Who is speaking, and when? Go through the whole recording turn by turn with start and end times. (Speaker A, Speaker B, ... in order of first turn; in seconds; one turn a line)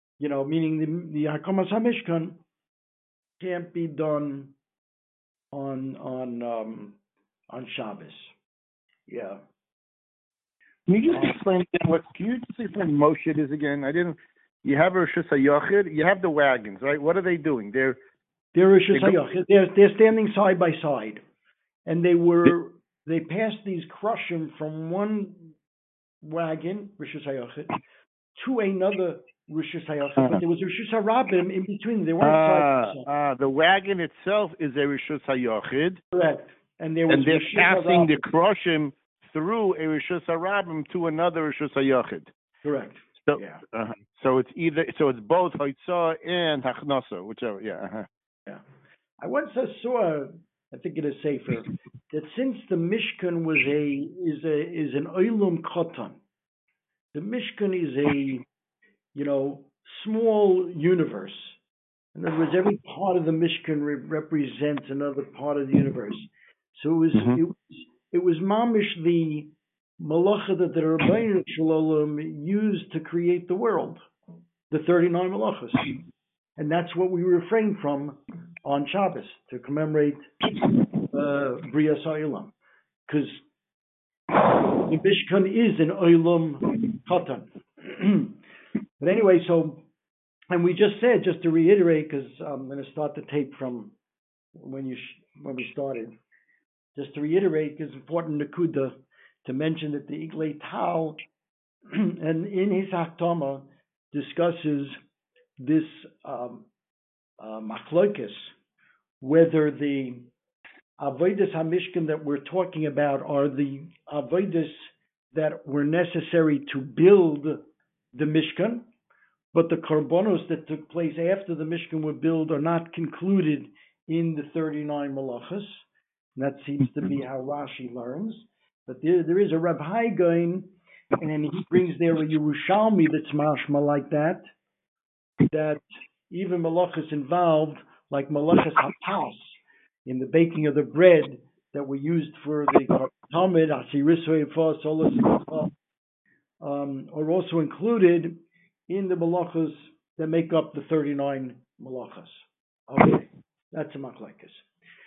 Speaker A: 0.2-2.4
Speaker A: 3.4-4.5
Speaker A: 5.5-7.0
Speaker A: 7.5-8.3
Speaker A: 9.1-9.4
Speaker B: 10.9-18.0
Speaker A: 18.5-21.2
Speaker B: 18.9-19.2
Speaker A: 21.9-25.5
Speaker A: 26.2-27.7
Speaker A: 28.4-33.1
Speaker B: 32.2-36.0
Speaker A: 36.1-38.2
Speaker B: 37.1-42.3
Speaker A: 42.6-43.6
Speaker B: 43.2-48.1
Speaker A: 49.2-56.2
Speaker A: 57.1-58.4
Speaker A: 59.1-61.5
Speaker A: 62.1-74.0
Speaker B: 67.1-67.4
Speaker A: 74.7-76.0
Speaker A: 76.6-80.2
Speaker A: 81.0-82.5
Speaker A: 83.1-83.4
Speaker A: 84.5-88.4
Speaker A: 89.0-89.8
Speaker A: 90.5-93.9
Speaker A: 94.5-96.1
Speaker A: 96.9-101.2
Speaker A: 101.9-104.9
Speaker A: 105.6-106.7
Speaker A: 107.4-108.5
Speaker A: 109.2-110.3
Speaker A: 111.0-117.6
Speaker A: 118.1-118.8
Speaker A: 119.5-125.8
Speaker A: 126.3-134.4
Speaker A: 135.5-145.7
Speaker A: 146.6-148.4
Speaker A: 148.9-154.6